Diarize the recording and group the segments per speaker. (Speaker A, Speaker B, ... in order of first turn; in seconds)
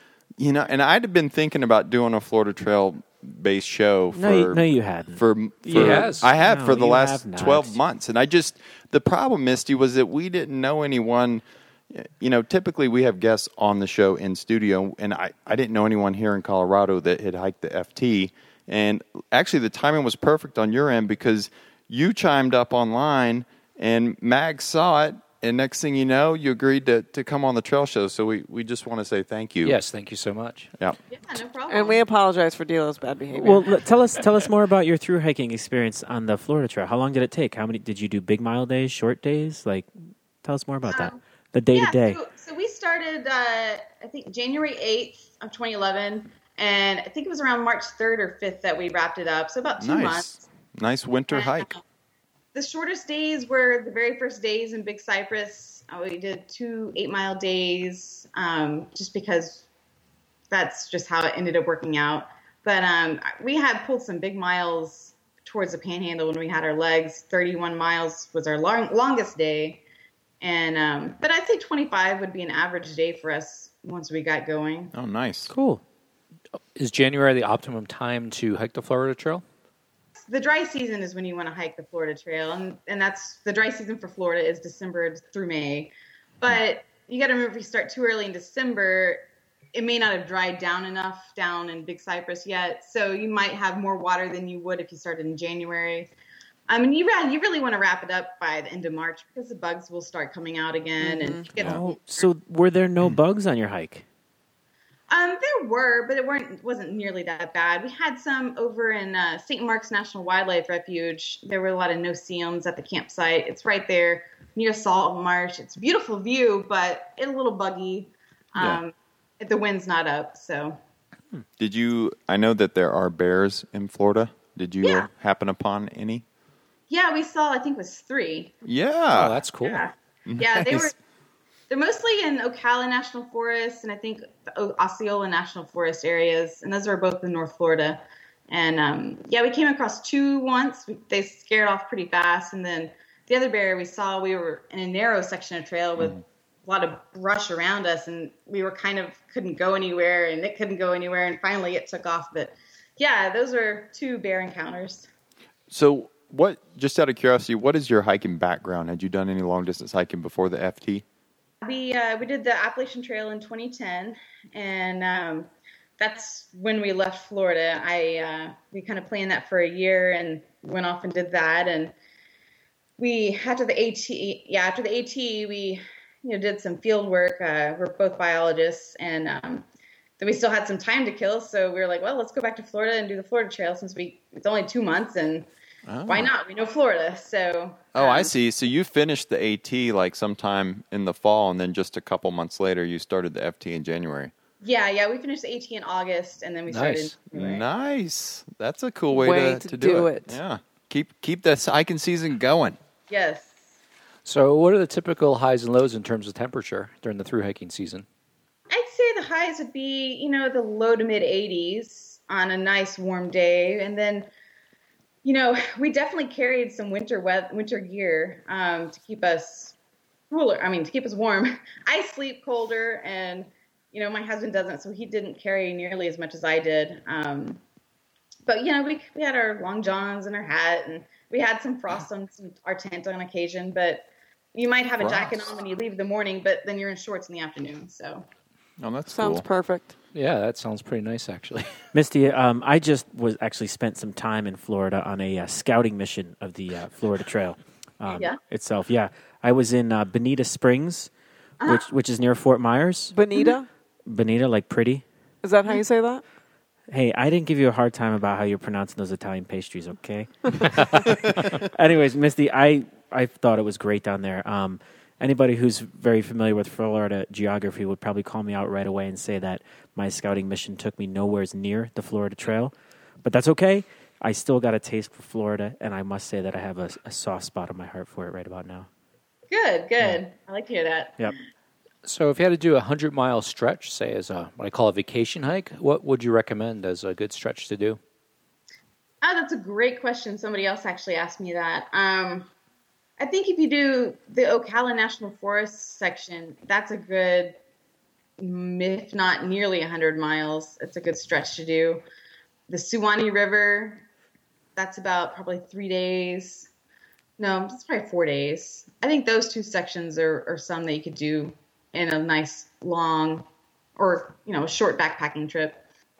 Speaker A: 0.4-29.8, 49.8-51.7, 74.9-75.5, 121.6-126.2, 128.6-129.3, 130.3-130.9, 155.7-161.0, 185.9-186.3, 187.9-194.3, 197.3-202.8, 235.0-235.4, 238.8-239.4
Speaker B: 4.1-7.8, 33.3-39.9, 40.4-42.2, 75.5-75.8, 101.6-104.0, 241.9-251.1, 251.6-253.1, 254.1-255.0, 256.9-278.9
Speaker C: 5.7-6.3, 29.6-30.7, 76.8-79.4, 129.1-129.8, 196.7-197.1, 204.2-208.1, 240.1-241.7, 282.0-288.0
Speaker D: 31.1-32.1, 40.9-41.2, 41.7-50.4, 51.3-51.8, 52.5-59.6, 60.5-69.8, 70.4-74.9, 80.2-89.2, 89.7-96.1, 96.7-102.3, 105.1-120.8, 124.8-125.1, 126.9-128.5, 129.6-130.9, 131.7-155.1, 161.6-171.9, 173.0-179.7, 180.2-185.5, 186.1-188.3, 194.6-197.6, 203.1-203.5, 208.7-214.3, 215.2-219.8, 220.3-227.6, 228.4-238.2, 248.1-248.4, 251.6-251.9, 279.5-281.3, 289.2-292.5, 293.2-297.6, 298.4-302.0, 302.7-304.1, 304.8-306.7, 307.4-315.8
Speaker E: 31.7-33.8, 199.1-200.4, 239.1-239.9, 253.1-253.7, 255.4-256.2